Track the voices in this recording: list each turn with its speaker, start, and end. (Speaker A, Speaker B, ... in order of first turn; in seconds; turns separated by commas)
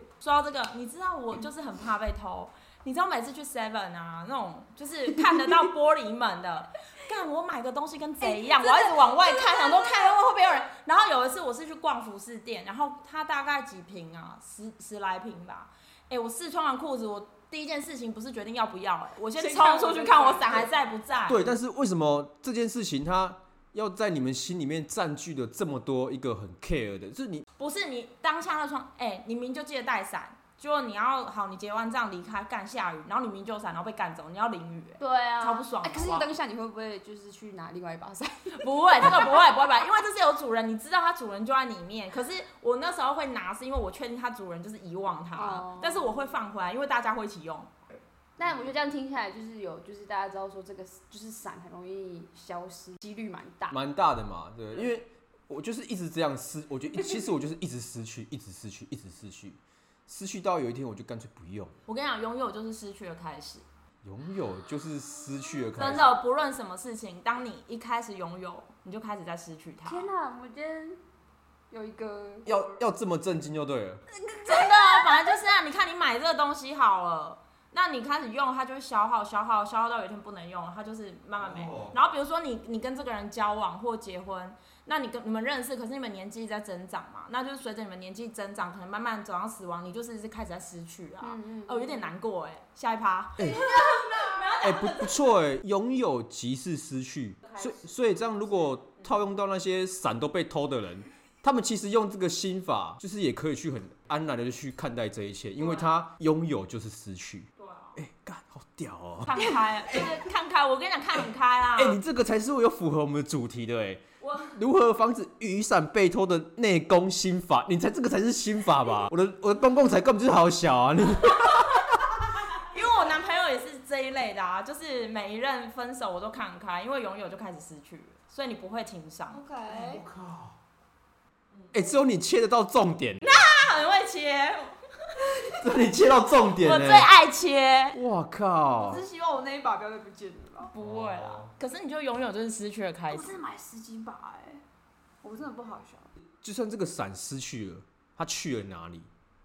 Speaker A: 0.2-21.4, Speaker B: 8.2-10.1, Speaker B: 19.4-20.7, Speaker C: 21.3-27.4, Speaker A: 27.6-36.3, Speaker B: 35.0-39.4, Speaker A: 38.6-47.7, Speaker B: 45.3-46.2, Speaker B: 48.4-53.8, Speaker C: 53.7-61.8, Speaker A: 61.9-63.6, Speaker C: 64.0-66.2, Speaker A: 65.8-70.1, Speaker B: 69.8-71.0, Speaker B: 71.7-72.8, Speaker C: 72.5-74.0, Speaker B: 74.1-75.1, Speaker A: 74.5-95.4, Speaker C: 81.4-82.0, Speaker B: 91.2-92.1, Speaker C: 93.4-93.8, Speaker C: 94.6-109.4, Speaker A: 97.4-97.8, Speaker A: 105.6-105.9, Speaker A: 107.6-108.0, Speaker A: 109.3-112.0, Speaker C: 111.8-122.2, Speaker A: 114.2-114.6, Speaker A: 122.6-129.4, Speaker B: 129.3-130.1, Speaker C: 129.7-130.6, Speaker C: 131.7-133.3, Speaker A: 133.2-134.7, Speaker C: 135.6-137.1, Speaker A: 136.6-138.0, Speaker C: 137.9-139.0, Speaker B: 138.8-140.7, Speaker A: 140.7-143.3, Speaker C: 140.8-141.5, Speaker B: 143.1-144.6, Speaker B: 145.2-146.1, Speaker C: 146.4-149.1